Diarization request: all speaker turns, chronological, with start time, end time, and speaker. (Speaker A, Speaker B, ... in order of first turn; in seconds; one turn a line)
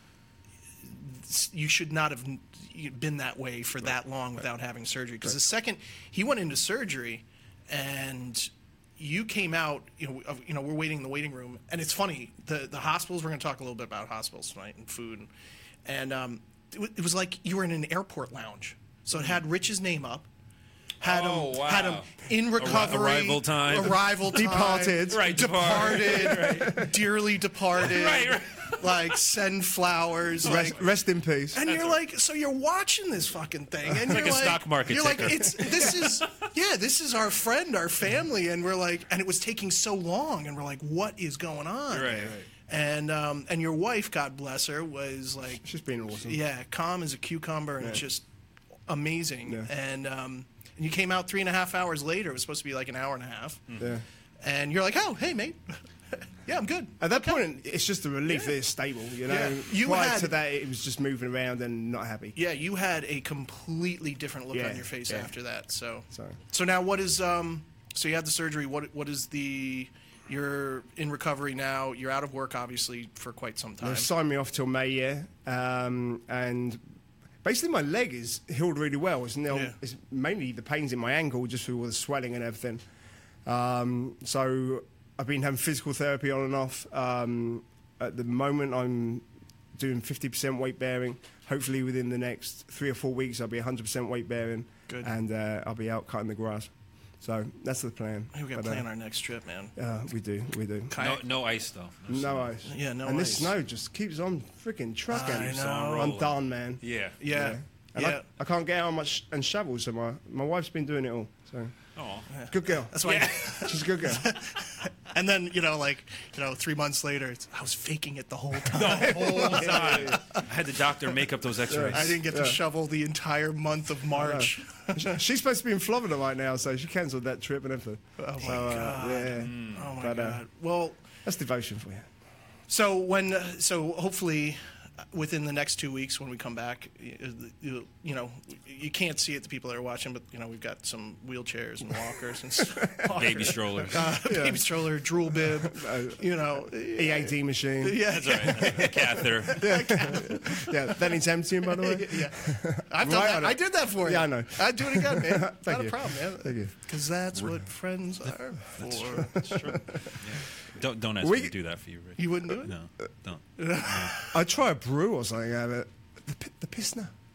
Speaker A: 0.8-15.3
Speaker A: 15.8-20.3
Speaker B: 21.0-26.9
Speaker A: 21.0-30.8
Speaker C: 24.3-25.3
Speaker C: 26.4-26.9
Speaker B: 27.8-29.2
Speaker B: 30.4-30.8
Speaker C: 30.4-31.6
Speaker A: 31.5-45.7
Speaker B: 31.6-32.0
Speaker B: 33.9-36.3
Speaker B: 41.9-42.5
Speaker C: 45.6-46.4
Speaker A: 46.2-48.3
Speaker A: 48.9-53.6
Speaker B: 53.7-53.9
Speaker C: 53.8-54.0
Speaker A: 54.4-57.4
Speaker C: 57.0-62.4
Speaker A: 59.3-60.3
Speaker A: 62.4-74.1
Speaker C: 64.5-65.3
Speaker C: 66.1-66.4
Speaker C: 73.8-76.8
Speaker C: 77.4-82.8
Speaker A: 79.5-79.8
Speaker C: 83.5-96.7
Speaker C: 97.2-98.8
Speaker A: 98.3-99.8
Speaker C: 99.8-100.9
Speaker A: 100.9-101.2
Speaker B: 101.0-102.6
Speaker C: 102.1-111.7
Speaker A: 102.7-103.5
Speaker A: 105.1-106.2
Speaker B: 105.4-107.2
Speaker A: 107.2-108.2
Speaker B: 112.0-112.3
Speaker A: 112.3-120.5
Speaker C: 112.5-113.0
Speaker B: 113.0-113.7
Speaker C: 113.6-114.3
Speaker B: 118.7-122.2
Speaker C: 119.3-120.2
Speaker C: 121.7-122.6
Speaker A: 121.9-125.2
Speaker C: 124.2-130.4
Speaker A: 128.2-131.0
Speaker B: 129.3-129.8
Speaker C: 131.2-132.1
Speaker A: 132.7-134.6
Speaker A: 135.1-159.7
Speaker B: 143.2-144.2
Speaker C: 144.1-144.7
Speaker C: 145.3-156.7
Speaker B: 148.1-150.1
Speaker C: 159.3-160.2
Speaker B: 159.3-164.2
Speaker C: 161.2-161.5
Speaker A: 162.2-162.7
Speaker A: 163.6-164.4
Speaker C: 164.3-167.1